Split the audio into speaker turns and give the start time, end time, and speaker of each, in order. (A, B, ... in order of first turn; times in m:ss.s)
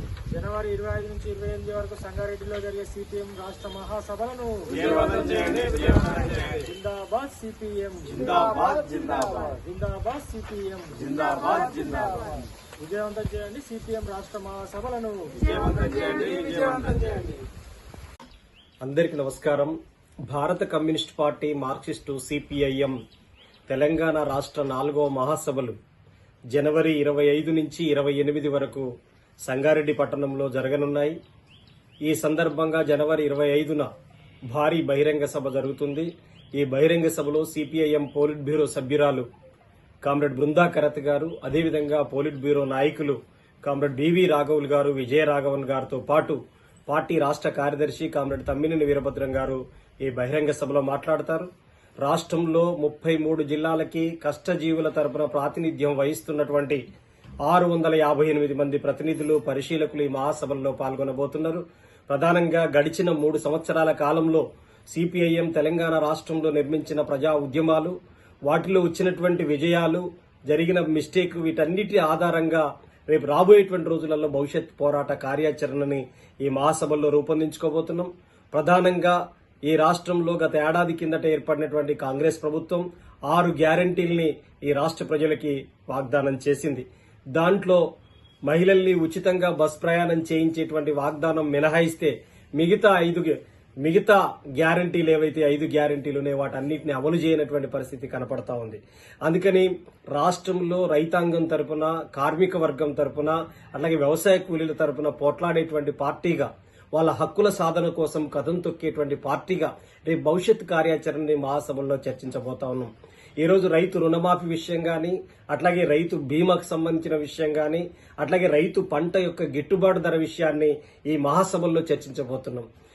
0:00.3-0:12.1 A
0:04.7-0:06.4 B
0:04.9-0:05.7 C
0:06.3-0:06.6 C
0:08.1-0:09.6 C
0:11.1-0:12.4 C
0:12.8-0:15.5 A
0:15.4-0:17.4 C
0:18.8-0:19.8 B
0:20.3-0:23.0 B
0:23.7-0:25.8 B
0:26.5-0:28.9 B
0:29.4-0:31.2 B
0:32.0-0:33.9 B
0:34.5-0:39.3 B
0:40.0-0:51.5 B
0:52.0-0:56.8 B
0:57.4-1:08.0 B
1:08.5-1:27.8 B
1:28.5-2:02.7 B